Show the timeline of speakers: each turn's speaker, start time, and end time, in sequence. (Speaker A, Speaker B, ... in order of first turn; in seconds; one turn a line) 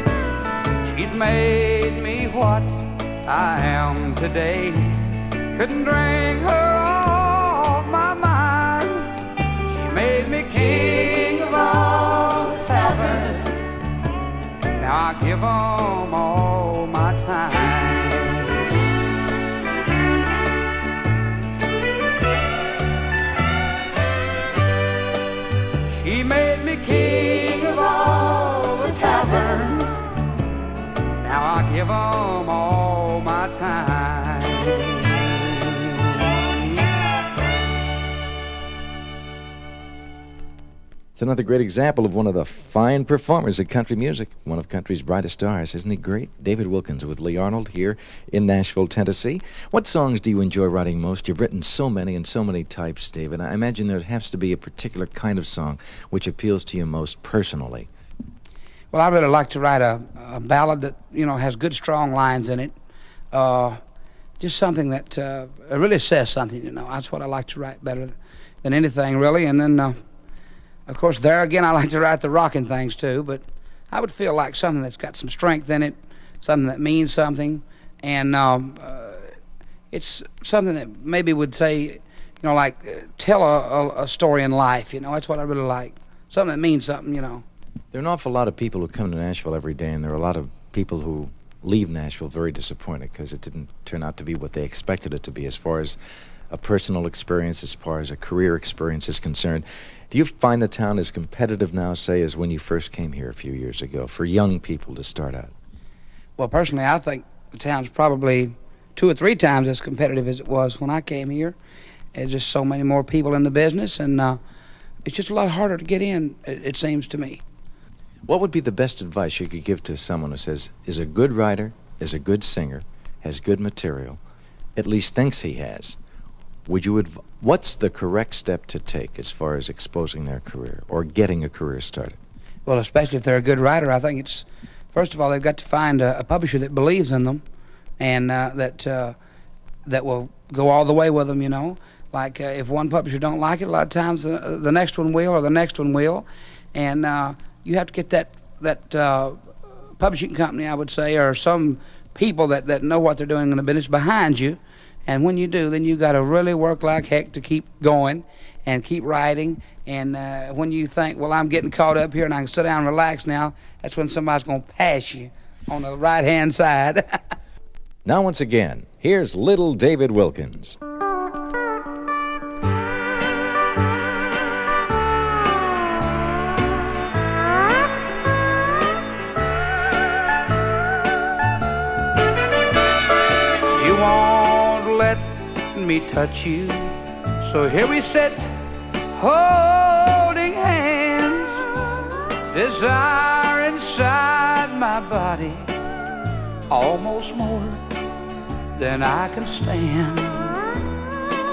Speaker A: 0.8-13.6
Speaker A: 14.7-18.7
Speaker A: 25.9-30.1
Speaker A: 31.2-36.4
Speaker B: 41.1-57.9
Speaker A: 58.9-62.7
Speaker A: 63.3-63.8
Speaker A: 64.4-69.9
Speaker A: 70.9-79.3
Speaker A: 79.9-87.4
Speaker B: 87.9-96.0
Speaker B: 96.5-105.5
Speaker A: 106.4-111.6
Speaker A: 112.1-114.4
Speaker A: 115.0-117.4
Speaker B: 118.3-124.2
Speaker B: 124.8-126.0
Speaker B: 126.7-132.2
Speaker A: 132.7-137.4
Speaker A: 138.0-139.2
Speaker A: 139.8-167.1
Speaker B: 168.0-170.8
Speaker A: 183.7-188.4
Speaker A: 189.1-191.6
Speaker A: 192.5-195.7
Speaker A: 196.7-197.8
Speaker A: 198.8-200.6